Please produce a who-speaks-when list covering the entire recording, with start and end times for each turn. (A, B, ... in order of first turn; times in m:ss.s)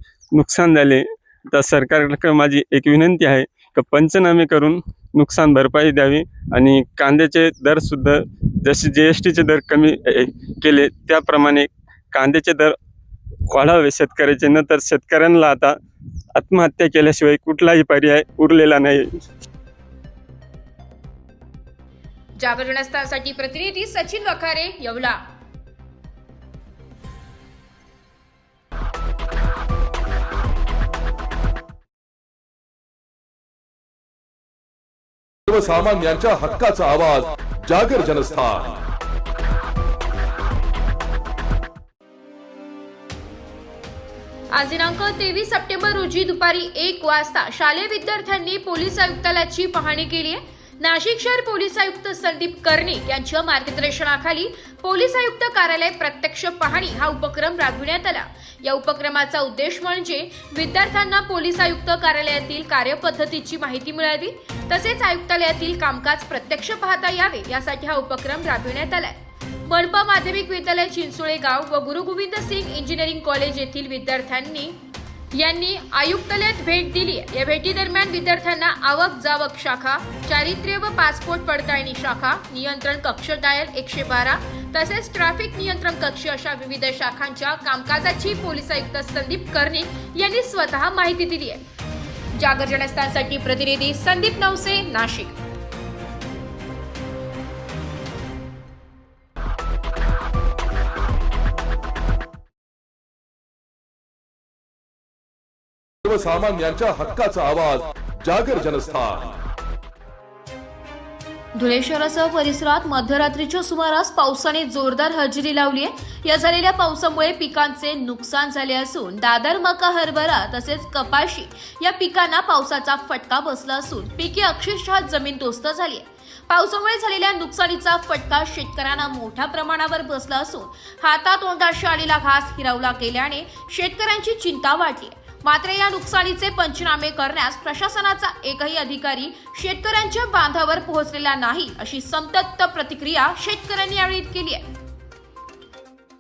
0:00.3-0:12.7 A
0:13.5-0:15.8 A
0:16.3-0:19.2 A
0:22.4-0:25.2 B
0:35.5-0:38.8 C
0:44.5-1:14.8 B
1:15.3-1:31.6 B
1:32.3-1:35.4 B
1:46.0-1:49.3 C
1:51.5-2:24.7 B